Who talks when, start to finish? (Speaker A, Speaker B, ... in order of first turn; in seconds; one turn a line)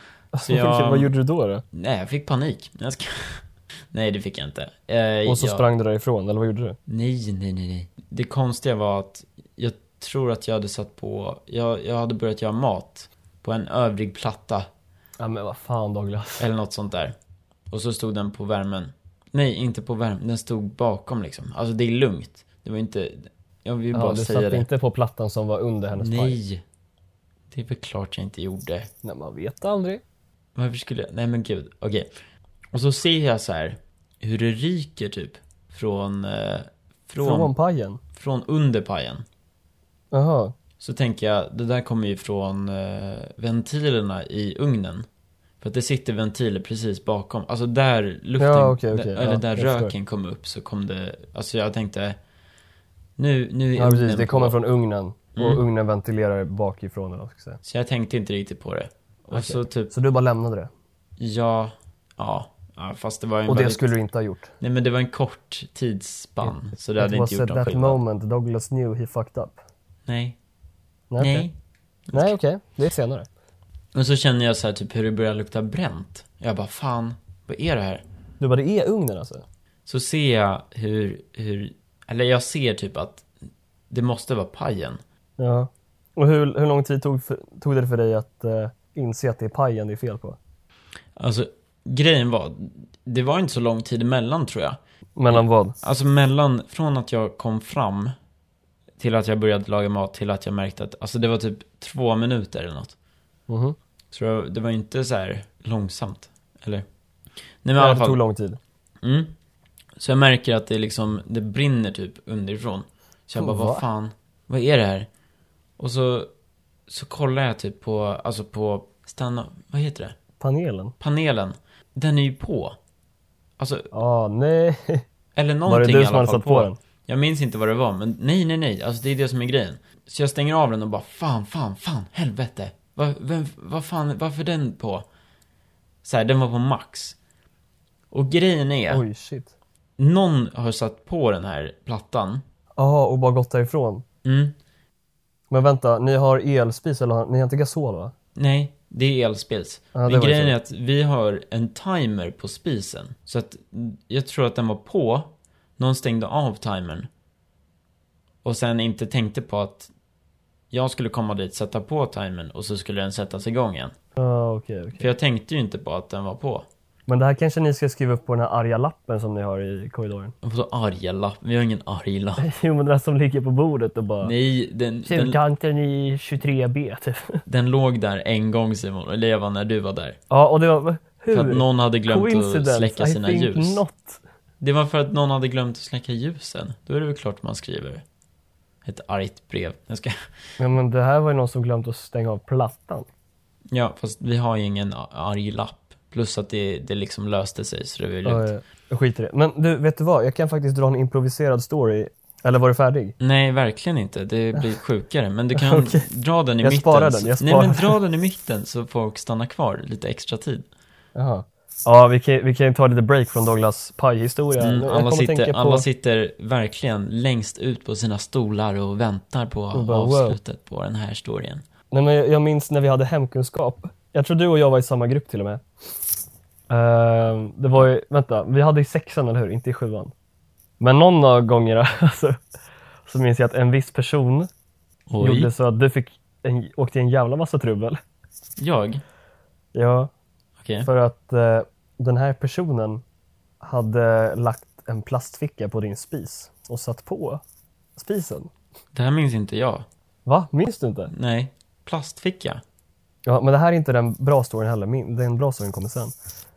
Speaker A: 0.3-1.6
Speaker B: 0.5-1.1
Speaker B: 1.7-5.6
Speaker A: 5.3-6.8
Speaker B: 6.9-14.7
Speaker A: 15.2-16.5
Speaker B: 16.4-17.1
Speaker B: 17.7-24.7
Speaker A: 23.9-26.4
Speaker B: 26.0-26.6
Speaker B: 27.5-28.9
Speaker A: 29.0-30.0
Speaker B: 30.6-32.1
Speaker B: 32.7-37.5
Speaker A: 37.2-38.0
Speaker B: 38.1-39.2
Speaker A: 40.1-40.5
Speaker B: 40.8-45.1
Speaker B: 45.6-52.2
Speaker A: 48.4-49.9
Speaker B: 53.2-54.6
Speaker A: 53.8-57.6
Speaker B: 55.4-55.6
Speaker B: 57.6-59.9
Speaker A: 59.3-60.7
Speaker B: 61.2-63.9
Speaker A: 63.5-64.5
Speaker B: 64.6-68.0
Speaker A: 67.0-69.6
Speaker B: 70.1-70.4
Speaker A: 71.1-71.5
Speaker B: 71.2-71.5
Speaker B: 72.1-72.3
Speaker A: 72.1-73.3
Speaker B: 73.9-78.0
Speaker A: 78.4-79.4
Speaker B: 79.8-83.2
Speaker B: 83.9-85.0
Speaker A: 85.4-90.4
Speaker B: 91.2-94.8
Speaker A: 95.2-95.7
Speaker B: 95.3-98.1
Speaker B: 99.0-102.9
Speaker A: 103.5-103.8
Speaker B: 104.1-106.8
Speaker B: 107.6-108.2
Speaker A: 107.8-108.6
Speaker B: 109.0-109.3
Speaker B: 110.0-115.1
Speaker A: 113.4-113.8
Speaker B: 115.8-116.3
Speaker B: 116.9-120.2
Speaker A: 120.4-120.9
Speaker B: 121.0-122.8
Speaker B: 123.6-123.9
Speaker A: 123.9-125.0
Speaker B: 125.3-135.0
Speaker A: 125.7-126.8
Speaker B: 136.0-137.2
Speaker B: 138.1-139.0
Speaker A: 138.9-139.5
Speaker B: 140.0-142.4
Speaker A: 142.8-144.0
Speaker B: 144.2-144.5
Speaker A: 145.5-148.1
Speaker B: 148.3-157.1
Speaker A: 149.9-150.5
Speaker B: 158.4-159.9
Speaker B: 160.7-163.9
Speaker A: 164.2-165.1
Speaker B: 165.0-166.7
Speaker A: 167.1-170.3
Speaker B: 170.4-172.5
Speaker A: 172.4-174.3
Speaker B: 174.2-175.4
Speaker A: 175.0-177.4
Speaker B: 177.4-180.2
Speaker A: 180.3-184.2
Speaker B: 181.3-183.8
Speaker B: 184.6-188.0
Speaker B: 188.8-190.2
Speaker A: 190.6-193.1
Speaker B: 193.7-198.5
Speaker A: 198.2-203.1
Speaker B: 203.2-210.7
Speaker A: 205.5-206.1
Speaker A: 206.6-207.9
Speaker A: 211.1-215.8
Speaker B: 214.6-221.6
Speaker A: 219.7-220.4
Speaker A: 221.9-225.6
Speaker A: 226.7-230.1
Speaker A: 230.8-232.4
Speaker A: 233.1-234.5
Speaker B: 235.1-235.5
Speaker A: 235.2-238.0
Speaker B: 238.6-239.0
Speaker A: 239.7-240.1
Speaker B: 240.6-240.9
Speaker A: 240.8-243.0
Speaker A: 243.6-247.4
Speaker A: 247.9-248.5
Speaker B: 248.9-249.8
Speaker A: 250.2-251.1
Speaker B: 251.1-252.6
Speaker A: 253.2-256.1